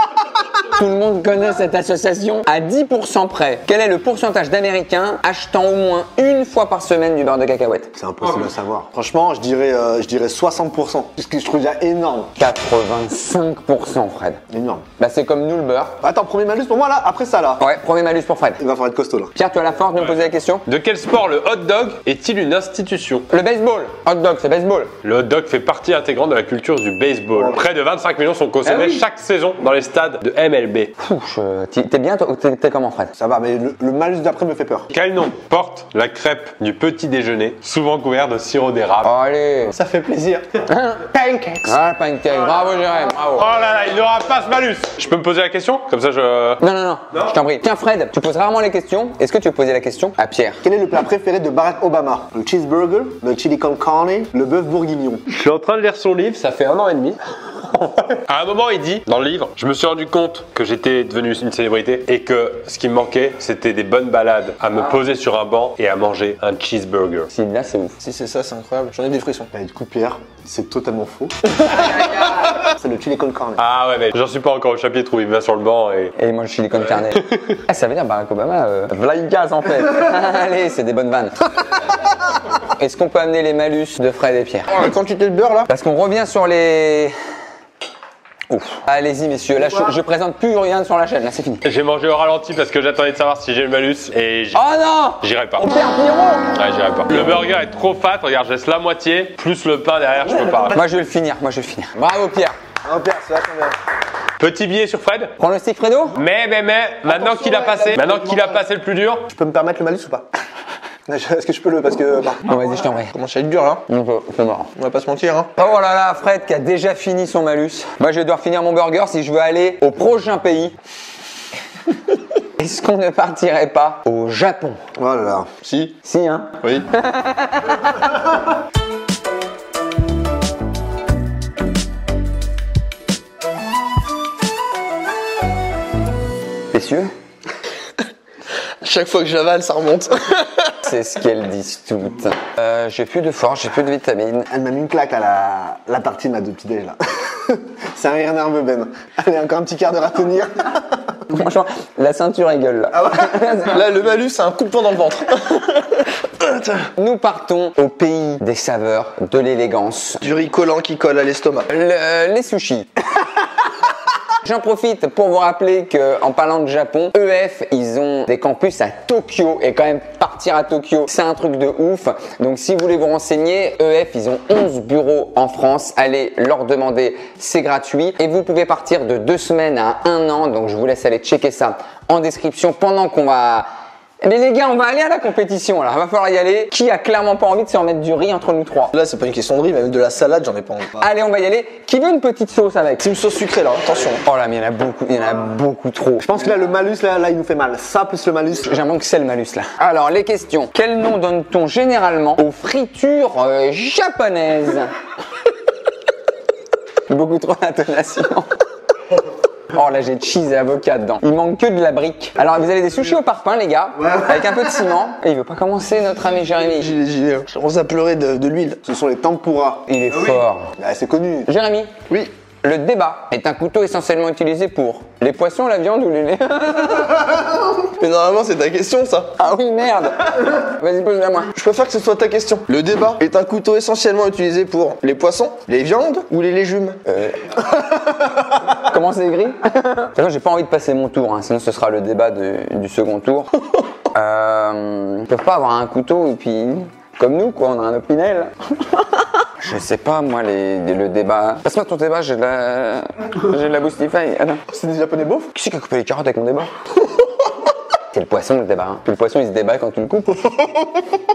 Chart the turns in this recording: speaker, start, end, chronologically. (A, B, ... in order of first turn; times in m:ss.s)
0:00.7-0:07.9 A
0:08.0-0:12.3 B
0:12.4-0:14.4 A
0:14.5-0:14.8 B
0:15.0-0:16.0 A
0:16.0-0:17.6 B
0:17.6-0:18.6 A
0:18.6-0:19.3 B
0:19.4-0:20.6 A
0:20.7-0:23.3 C
0:23.3-0:24.9 A
0:25.0-0:30.9 C
0:28.7-0:29.0 A
0:31.0-0:33.1 A
0:33.2-0:34.9 B
0:34.9-0:39.1 C
0:39.0-0:39.8 A
0:39.8-0:40.4 D
0:40.7-0:43.5 A
0:43.4-0:46.6 C
0:46.6-0:50.6 A
0:50.6-0:55.2 B
0:55.3-0:57.2 C
0:57.7-1:07.3 C
1:07.3-1:08.0 A
1:08.0-1:09.5 D
1:09.5-1:11.7 B
1:11.8-1:12.6 A
1:12.5-1:13.6 B
1:13.6-1:16.2 C
1:16.2-1:21.5 A
1:17.0-1:17.6 C
1:22.6-1:24.7 A
1:24.7-1:25.7 D
1:25.7-1:27.1 A
1:28.5-1:31.6 A
1:31.6-1:34.7 C
1:34.6-1:36.5 A
1:35.2-1:35.7 C
1:36.5-1:40.8 C
1:40.7-1:42.6 A
1:42.8-1:43.8 B
1:44.4-1:45.3 C
1:45.4-1:46.2 A
1:46.2-1:49.3 C
1:49.3-1:50.3 B
1:51.1-1:52.4 B
1:52.5-1:53.1 A
1:53.1-1:53.8 D
1:53.9-1:54.7 A
1:54.8-1:55.5 D
1:55.6-2:00.8 A
2:02.6-2:04.8 A
2:05.0-2:05.6 B
2:05.6-2:06.0 D
2:06.0-2:08.1 A
2:16.7-2:17.1 A
2:18.8-2:20.7 D
2:20.8-2:24.5 A
2:24.5-2:31.0 B
2:31.3-2:33.8 A
2:33.2-2:36.9 D
2:37.0-2:40.2 A
2:40.2-2:41.7 D
2:41.7-2:42.9 A
2:44.4-3:03.7 A
3:04.2-3:09.0 A
3:09.0-3:10.9 D
3:11.0-3:13.1 A
3:13.0-3:14.2 D
3:14.2-3:16.3 A
3:16.2-3:18.8 B
3:18.6-3:24.9 A
3:27.1-3:28.5 A
3:29.7-3:36.9 A
3:36.7-3:38.8 D
3:38.9-3:39.8 B
3:39.9-3:40.7 A
3:40.8-3:41.5 B
3:41.5-3:42.1 A
3:42.6-3:47.4 A
3:47.8-3:49.4 D
3:49.4-3:51.5 A
3:51.6-3:57.0 D
3:57.1-3:57.6 A
3:58.7-4:03.5 A
4:04.1-4:14.6 A
4:14.7-4:15.5 B
4:15.5-4:16.7 A
4:18.1-4:20.5 A